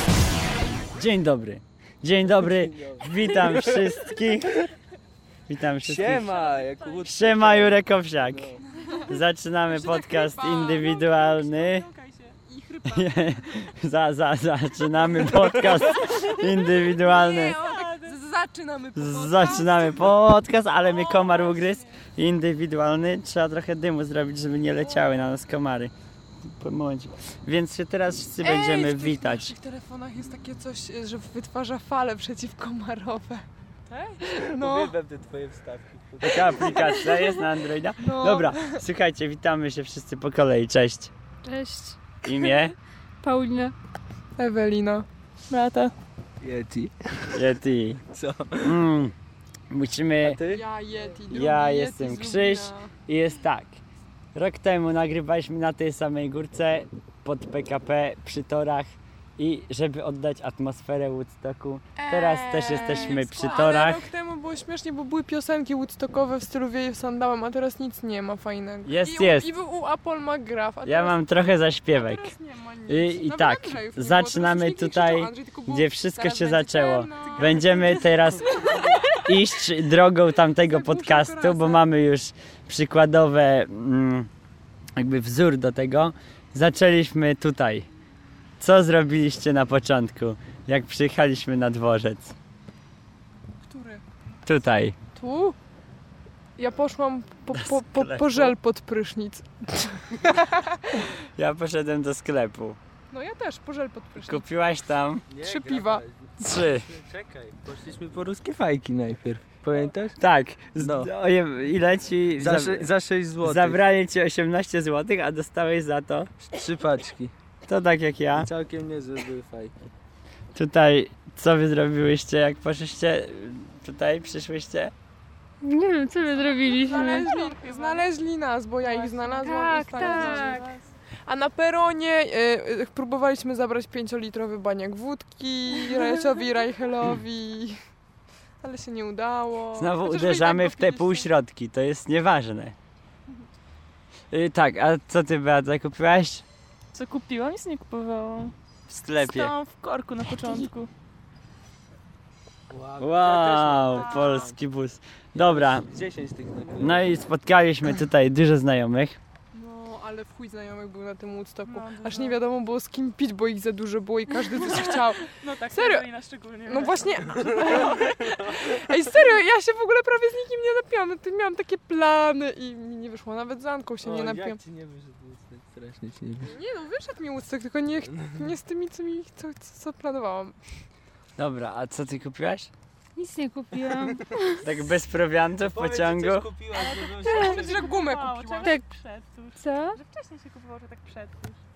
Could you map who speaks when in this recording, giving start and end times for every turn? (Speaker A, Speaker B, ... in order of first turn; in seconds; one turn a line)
Speaker A: 0.9-4.6
Speaker B: 2.4-4.1
Speaker A: 5.5-6.4
Speaker B: 5.8-8.6
Speaker C: 6.3-7.1
Speaker A: 7.0-8.5
Speaker A: 9.1-11.9
Speaker D: 9.7-11.8
Speaker C: 11.7-12.4
Speaker D: 12.4-13.7
Speaker A: 12.9-17.6
Speaker B: 15.3-15.7
Speaker D: 17.1-20.1
Speaker C: 17.3-18.2
Speaker A: 18.9-25.9
Speaker C: 20.8-22.0
Speaker A: 26.5-29.5
Speaker D: 28.4-33.4
Speaker C: 33.9-34.2
Speaker D: 34.2-34.9
Speaker B: 34.4-36.8
Speaker A: 36.2-41.1
Speaker D: 38.0-38.8
Speaker E: 41.4-42.6
Speaker A: 42.2-42.7
Speaker E: 43.2-43.7
Speaker D: 44.4-45.0
Speaker C: 45.5-45.9
Speaker B: 46.4-47.4
Speaker A: 47.3-48.0
Speaker B: 48.0-48.8
Speaker A: 48.6-49.1
Speaker A: 49.7-50.4
Speaker B: 50.2-50.6
Speaker D: 50.5-52.9
Speaker A: 51.3-53.8
Speaker A: 54.3-64.0
Speaker D: 62.0-71.2
Speaker A: 68.8-69.5
Speaker A: 70.8-72.3
Speaker D: 71.9-78.8
Speaker A: 72.9-84.3
Speaker C: 77.4-77.8
Speaker D: 80.6-81.9
Speaker A: 85.0-87.9
Speaker A: 88.6-92.3
Speaker D: 93.6-94.0
Speaker A: 94.5-95.0
Speaker D: 95.1-95.5
Speaker D: 96.6-100.9
Speaker A: 97.5-98.5
Speaker A: 101.3-102.8
Speaker D: 103.1-104.4
Speaker A: 104.2-105.2
Speaker B: 105.3-110.2
Speaker D: 105.4-106.0
Speaker A: 106.4-106.9
Speaker A: 110.2-112.9
Speaker B: 110.8-111.1
Speaker B: 112.4-113.8
Speaker A: 113.4-116.3
Speaker B: 116.5-117.3
Speaker A: 117.7-118.5
Speaker B: 118.3-119.7
Speaker A: 120.5-124.9
Speaker E: 125.6-127.3
Speaker C: 126.6-128.1
Speaker D: 126.7-130.7
Speaker C: 128.8-130.8
Speaker E: 129.4-130.7
Speaker D: 131.3-137.8
Speaker D: 138.6-141.3
Speaker A: 139.8-142.8
Speaker A: 144.3-146.4
Speaker C: 146.9-148.5
Speaker A: 148.9-149.5
Speaker C: 149.2-150.9
Speaker B: 152.7-154.6
Speaker A: 153.0-155.9
Speaker B: 155.3-157.1
Speaker A: 156.8-159.2
Speaker D: 159.5-166.1
Speaker C: 161.7-162.4
Speaker C: 164.8-168.0
Speaker D: 166.7-174.6
Speaker B: 167.6-168.4
Speaker B: 174.0-176.5
Speaker D: 176.4-180.6
Speaker B: 178.1-178.4
Speaker A: 181.4-182.7
Speaker E: 183.2-184.7
Speaker A: 184.6-186.5
Speaker B: 185.6-187.7
Speaker C: 186.7-191.6
Speaker E: 187.2-187.6
Speaker D: 187.3-188.8
Speaker E: 189.6-190.0